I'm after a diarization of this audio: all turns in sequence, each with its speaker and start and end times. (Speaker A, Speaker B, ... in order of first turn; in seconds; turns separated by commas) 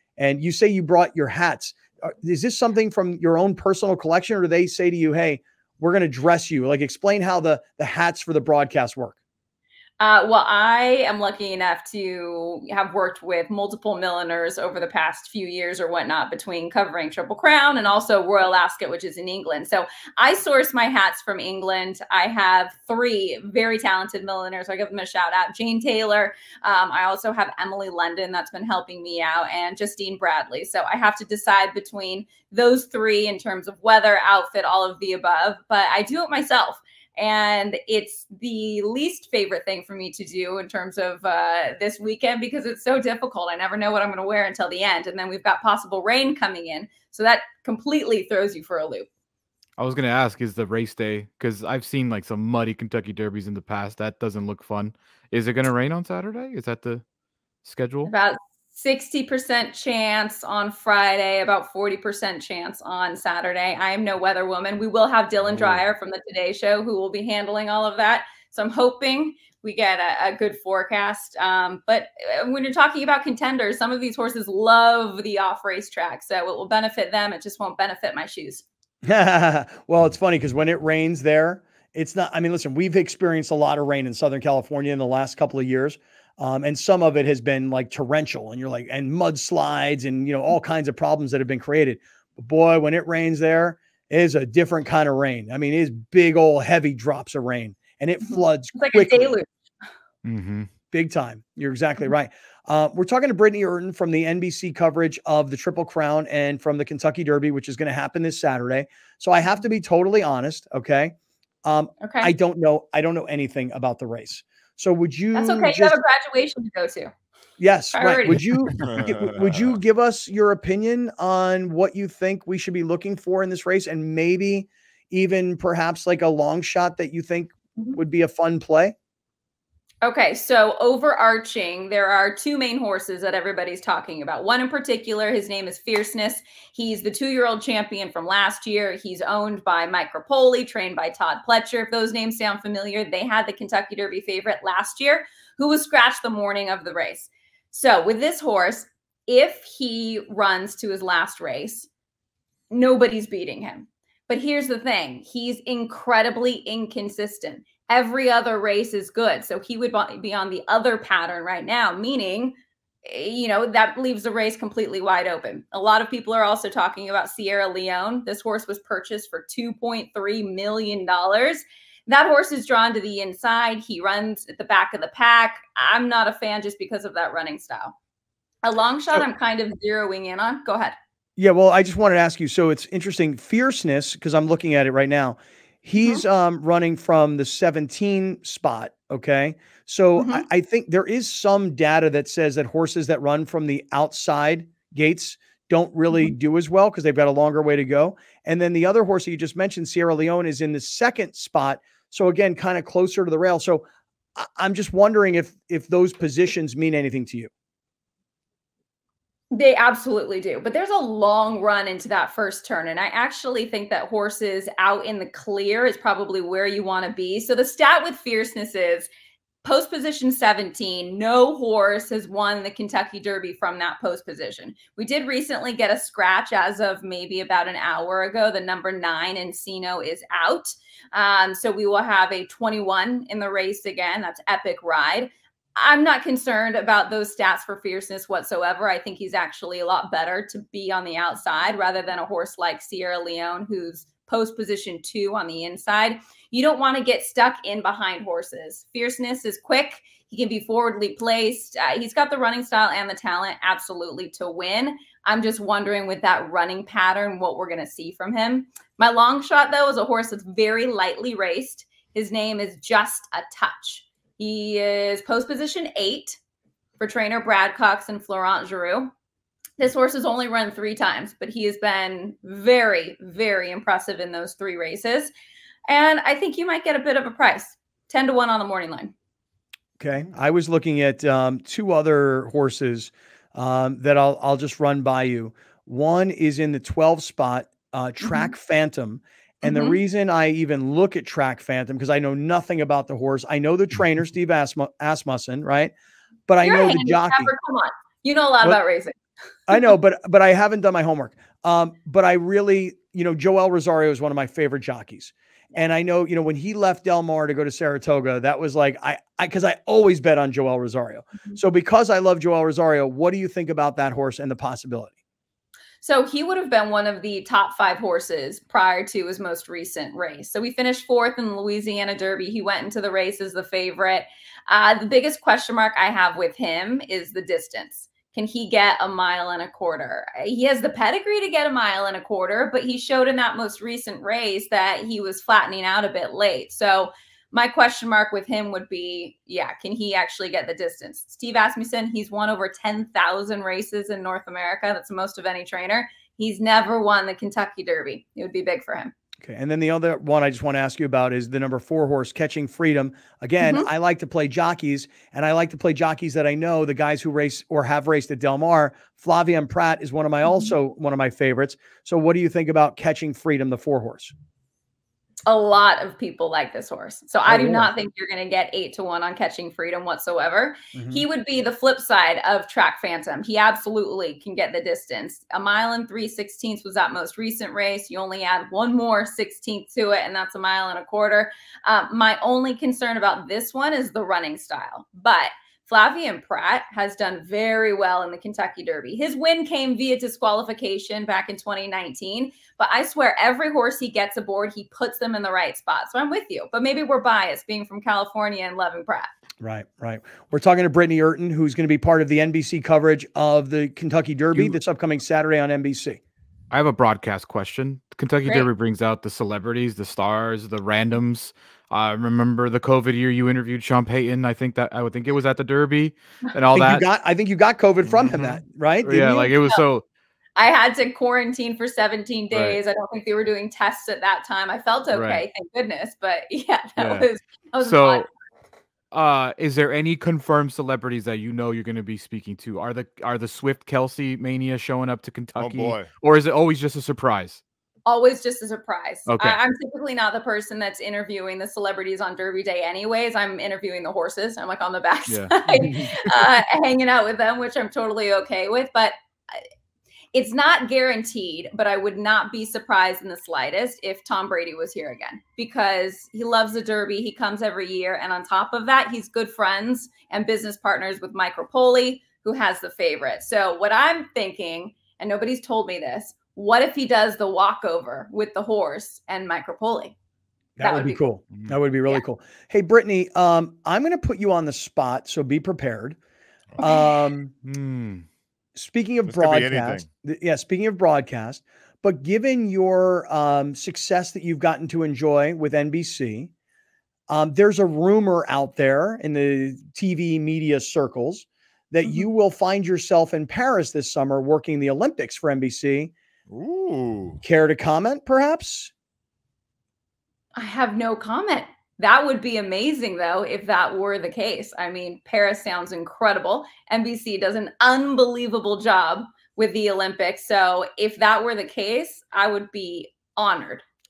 Speaker A: 0.2-9.2, Speaker B: 10.0-49.1, Speaker C: 49.8-57.0, Speaker C: 57.6-58.1, Speaker B: 58.0-78.6, Speaker C: 65.4-65.8, Speaker A: 79.0-99.4, Speaker B: 98.2-99.5, Speaker C: 100.2-100.7, Speaker A: 100.9-111.1, Speaker A: 111.6-116.0, Speaker B: 112.0-112.3, Speaker B: 115.3-117.1, Speaker A: 117.6-128.9, Speaker B: 117.9-118.4, Speaker D: 118.8-119.8, Speaker B: 130.0-151.9, Speaker B: 152.7-177.9, Speaker B: 178.6-180.9, Speaker A: 181.4-203.8, Speaker B: 190.2-190.4, Speaker A: 204.4-207.5, Speaker B: 209.5-219.1, Speaker B: 219.6-266.4, Speaker B: 267.0-269.1, Speaker B: 269.8-275.3, Speaker B: 275.9-279.1, Speaker A: 280.0-295.9, Speaker B: 288.2-288.5, Speaker B: 289.6-290.0, Speaker A: 296.5-297.5, Speaker B: 296.6-299.1, Speaker A: 299.7-315.1, Speaker B: 316.0-349.1, Speaker A: 349.4-364.3, Speaker B: 353.6-353.9, Speaker B: 360.4-360.7, Speaker B: 365.4-399.3, Speaker A: 367.4-367.9, Speaker A: 370.9-371.2, Speaker A: 399.6-406.2, Speaker C: 406.7-417.1, Speaker A: 416.7-419.5, Speaker C: 418.0-420.0, Speaker B: 419.5-419.8, Speaker B: 420.6-428.3, Speaker C: 422.5-422.8, Speaker C: 425.1-425.4, Speaker C: 427.0-427.2, Speaker C: 427.8-428.3, Speaker C: 429.1-437.6, Speaker D: 435.6-436.1, Speaker B: 438.1-449.6, Speaker C: 439.3-439.6, Speaker C: 445.3-446.3, Speaker B: 450.3-470.1, Speaker A: 470.8-476.2, Speaker B: 470.8-471.2, Speaker B: 476.8-477.3, Speaker A: 476.8-477.5, Speaker C: 477.6-478.2, Speaker A: 478.8-486.5, Speaker D: 479.2-480.1, Speaker A: 487.3-496.1, Speaker D: 496.5-497.4, Speaker A: 497.4-498.9, Speaker B: 500.6-513.8